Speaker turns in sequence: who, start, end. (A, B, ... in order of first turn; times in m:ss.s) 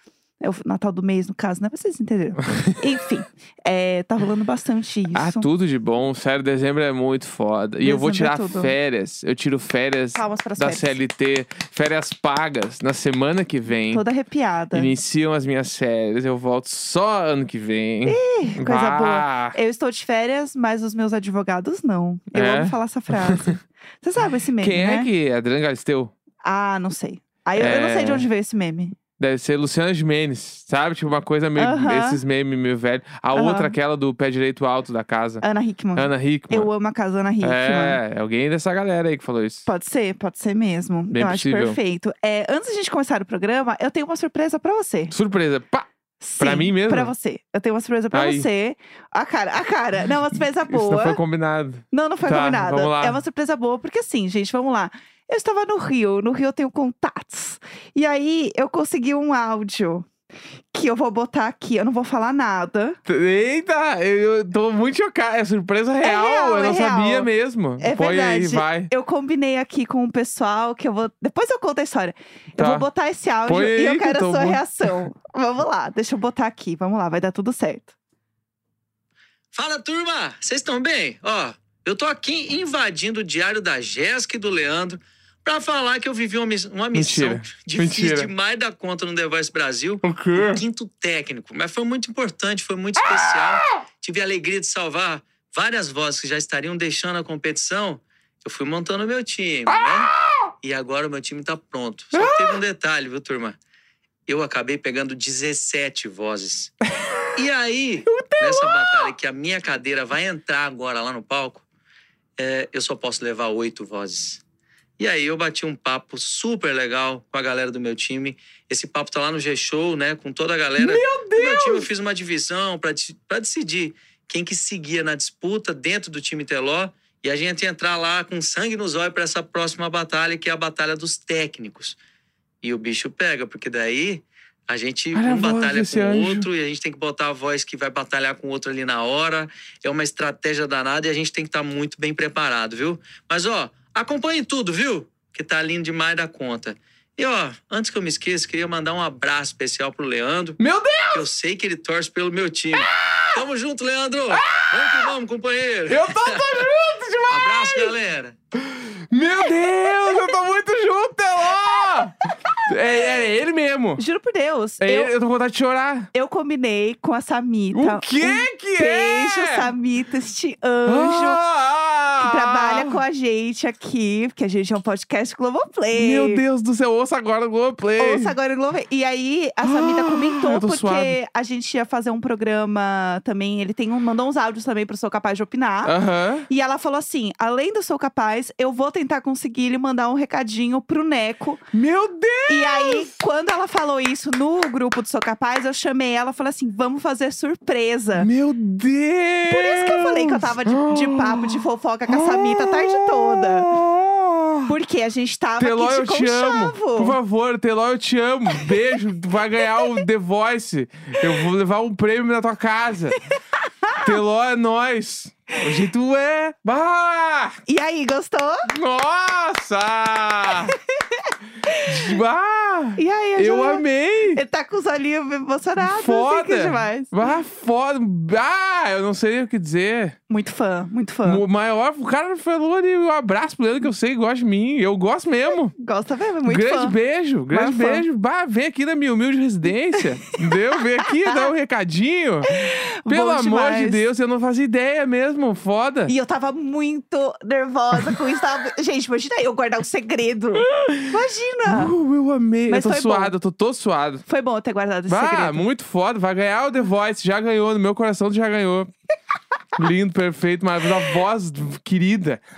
0:00.4-0:05.5 A
0:05.1-0:14.0 B
0:07.8-0:08.7 A
0:10.2-0:11.0 A
0:13.9-0:14.9 A
0:14.7-0:19.6 B
0:18.0-0:25.1 A
0:22.3-0:23.6 B
0:24.6-0:26.1 B
0:26.4-0:29.0 A
0:27.6-0:28.3 B
0:29.2-0:35.4 B
0:31.6-0:32.2 A
0:33.3-0:33.8 A
0:35.4-0:38.0 A
0:36.0-0:36.7 B
0:37.4-0:39.7 B
0:39.7-0:45.1 A
0:41.1-0:41.8 B
0:45.1-0:45.9 B
0:46.2-0:51.2 A
0:46.4-0:47.1 B
0:48.1-0:48.5 B
0:50.7-0:53.2 B
0:51.9-1:00.1 A
1:00.7-1:03.0 A
1:03.1-1:08.9 B
1:06.0-1:07.3 A
1:07.8-1:17.9 A
1:12.6-1:12.8 B
1:13.5-1:15.1 B
1:19.5-1:43.6 C
1:26.9-1:28.3 B
1:30.0-1:30.6 B
1:39.7-1:40.5 B
1:42.1-1:42.6 B
1:44.3-1:46.7 C
1:47.3-1:51.6 C
1:48.1-1:49.1 B
1:52.4-1:54.4 C
1:55.0-2:12.0 C
2:00.8-2:01.9 B
2:12.6-2:30.6 C
2:15.1-2:16.5 B
2:30.6-2:31.2 B
2:31.1-2:36.7 C
2:32.8-2:33.4 B
2:34.3-2:35.1 B
2:35.9-2:38.0 B
2:37.3-2:38.4 C
2:38.6-2:44.0 B
2:44.0-2:45.1 A
2:44.8-2:46.1 B
2:46.1-2:51.4 A
2:47.7-2:49.7 B
2:50.9-2:53.0 B
2:52.2-2:56.4 A
2:55.9-2:58.4 B
2:58.0-3:05.9 A
2:59.6-3:01.2 B
3:05.8-3:06.5 B
3:06.5-3:11.7 A
3:11.7-3:13.1 B
3:12.5-3:18.3 A
3:18.2-3:24.7 B
3:19.5-3:23.7 A
3:24.7-3:27.2 A
3:25.6-3:33.2 B
3:29.7-3:30.0 A
3:33.8-3:34.2 A
3:34.0-3:37.6 B
3:37.7-3:38.7 A
3:38.7-3:40.8 B
3:40.6-3:42.2 A
3:41.8-3:44.4 B
3:43.0-3:47.3 A
3:45.8-3:50.2 B
3:50.3-3:51.4 A
3:51.2-3:55.7 B
3:55.8-3:57.0 A
3:56.5-4:02.5 B
3:57.5-3:58.0 A
4:02.5-4:04.0 A
4:03.1-4:06.1 B
4:06.1-4:11.9 A
4:10.6-4:14.2 B
4:12.7-4:13.3 A
4:14.3-4:15.6 A
4:15.1-4:18.9 B
4:19.8-4:22.4 B